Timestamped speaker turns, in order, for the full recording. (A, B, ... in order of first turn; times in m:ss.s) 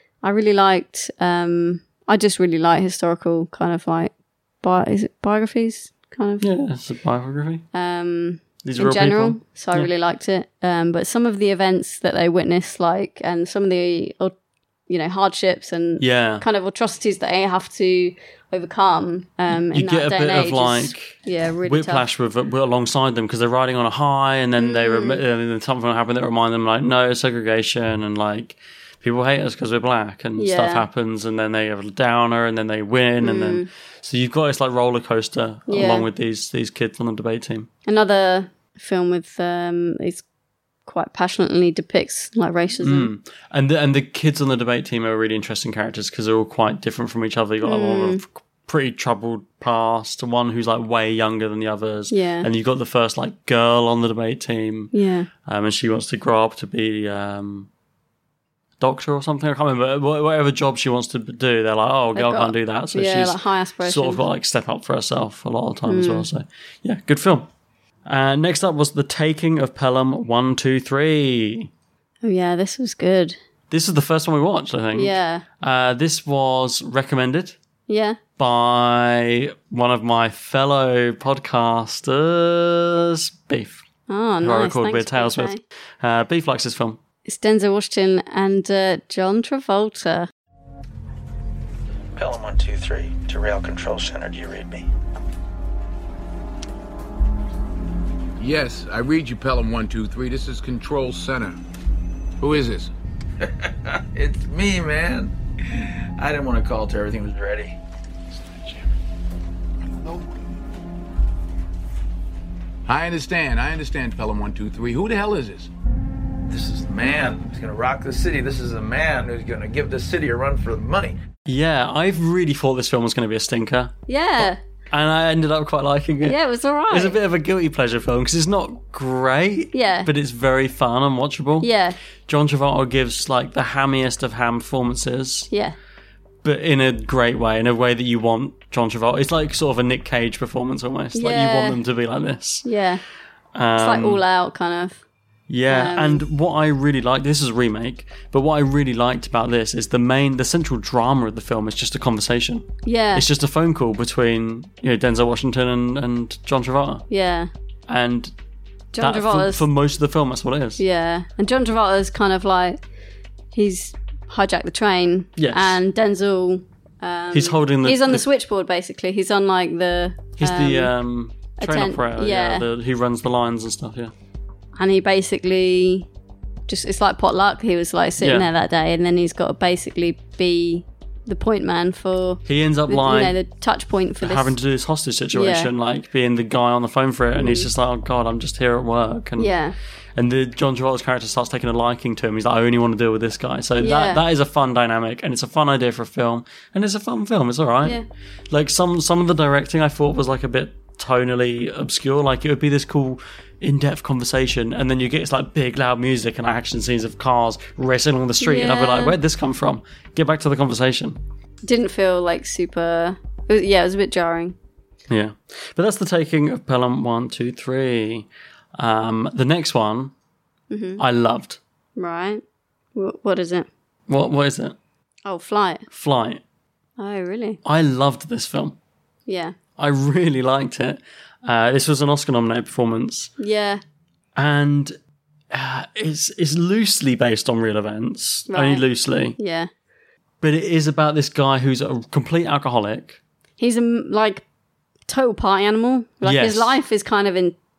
0:00.2-0:04.1 A
0:04.6-0:06.4 A
0:06.4-0:07.6 B
0:07.7-0:14.3 A
0:08.6-0:09.9 B
0:14.9-0:22.0 A
0:16.0-0:16.4 B
0:19.5-0:37.7 B
0:24.6-0:25.2 A
0:30.4-0:30.8 A
0:33.2-0:33.7 A
0:35.7-0:36.1 A
0:37.9-0:40.2 A
0:40.9-0:43.1 A
0:42.8-0:54.9 B
0:47.6-0:48.2 A
0:52.1-0:52.5 A
0:54.9-0:55.3 A
0:55.4-0:57.7 B
0:58.8-1:07.5 B
1:02.2-1:04.2 A
1:05.9-1:06.3 A
1:08.1-1:11.7 B
1:12.2-1:13.4 A
1:13.7-1:17.6 B
1:14.9-1:15.4 A
1:17.9-1:18.2 A
1:18.4-1:23.8 B
1:24.1-1:25.6 A
1:24.4-1:27.0 B
1:27.3-1:30.3 A
1:32.2-1:32.4 C
1:33.1-1:34.8 C
1:38.4-1:41.3 D
1:44.2-1:45.3 C
1:46.2-1:47.4 C
1:56.7-1:58.8 C
1:59.9-2:00.7 C
2:01.4-2:06.4 B
2:04.1-2:04.6 A
2:06.2-2:07.2 A
2:06.9-2:11.7 B
2:09.7-2:10.1 A
2:11.6-2:12.0 A
2:12.3-2:15.5 B
2:16.4-2:22.7 B
2:21.2-2:21.8 A
2:22.6-2:23.0 A
2:23.6-2:24.2 B
2:23.8-2:25.0 A
2:25.5-2:37.0 B
2:25.7-2:26.2 A
2:32.8-2:33.2 A
2:37.1-2:37.5 A
2:37.9-2:38.3 B
2:38.9-2:39.6 A
2:39.0-2:40.8 B
2:40.8-2:42.8 A
2:43.5-2:50.9 A
2:45.4-2:45.8 B
2:47.3-2:48.2 B
2:50.4-2:54.1 B
2:51.6-2:52.6 A
2:54.8-2:56.1 A
2:56.7-3:04.5 A
2:58.2-2:58.5 B
3:02.4-3:03.4 B
3:04.2-3:09.5 B
3:05.4-3:05.7 A
3:07.4-3:07.7 A
3:09.4-3:09.8 A
3:10.2-3:18.0 B
3:13.8-3:14.2 A
3:18.5-3:31.2 B
3:28.4-3:29.2 A
3:31.6-3:34.6 A
3:35.1-3:40.1 B
3:40.7-3:41.0 A
3:41.0-3:41.6 B
3:42.0-3:42.4 A
3:43.0-3:43.7 A
3:44.1-3:44.8 B
3:45.3-3:45.8 A
3:45.9-3:46.4 B
3:47.0-3:47.6 A
3:47.6-3:48.8 B
3:49.3-3:49.6 A
3:49.8-3:53.3 B
3:53.4-3:53.8 A
3:54.4-3:55.0 B
3:55.5-3:59.4 B
3:58.5-3:58.8 A
3:59.4-3:59.7 A
4:00.4-4:03.2 B
4:03.6-4:04.4 A
4:05.1-4:07.6 A
4:06.2-4:06.8 B